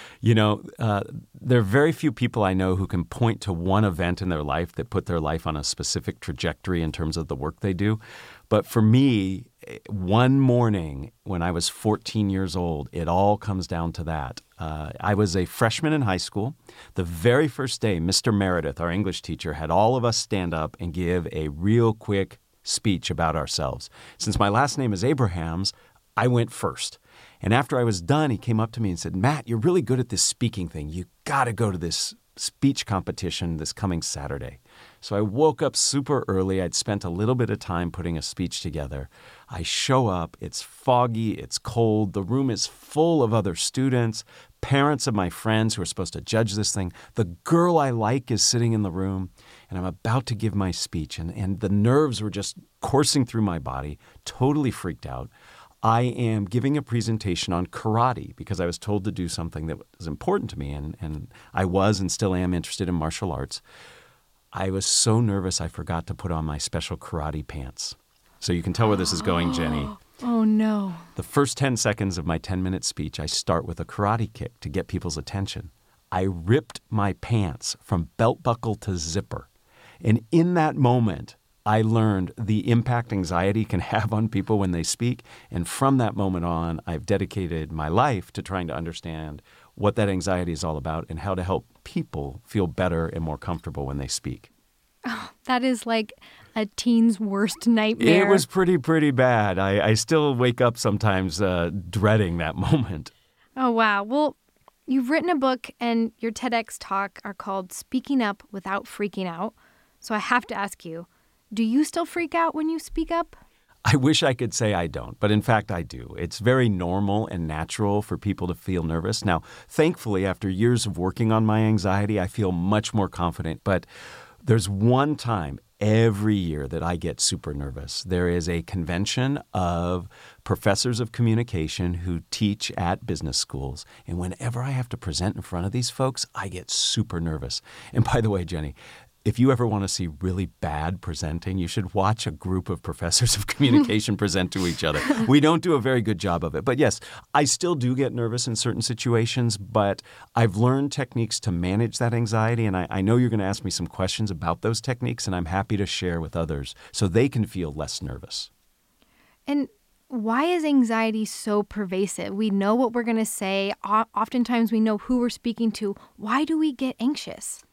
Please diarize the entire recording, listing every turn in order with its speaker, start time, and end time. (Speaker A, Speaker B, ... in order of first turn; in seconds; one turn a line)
Speaker A: 0.2-55.3
Speaker A: 55.8-63.6
Speaker A: 64.5-69.9
Speaker B: 69.2-71.1
Speaker A: 71.1-79.5
Speaker A: 80.0-94.5
Speaker B: 95.0-98.4
Speaker A: 98.0-103.1
Speaker B: 103.6-113.4
Speaker A: 113.8-123.9
Speaker A: 124.4-158.5
Speaker B: 159.5-167.6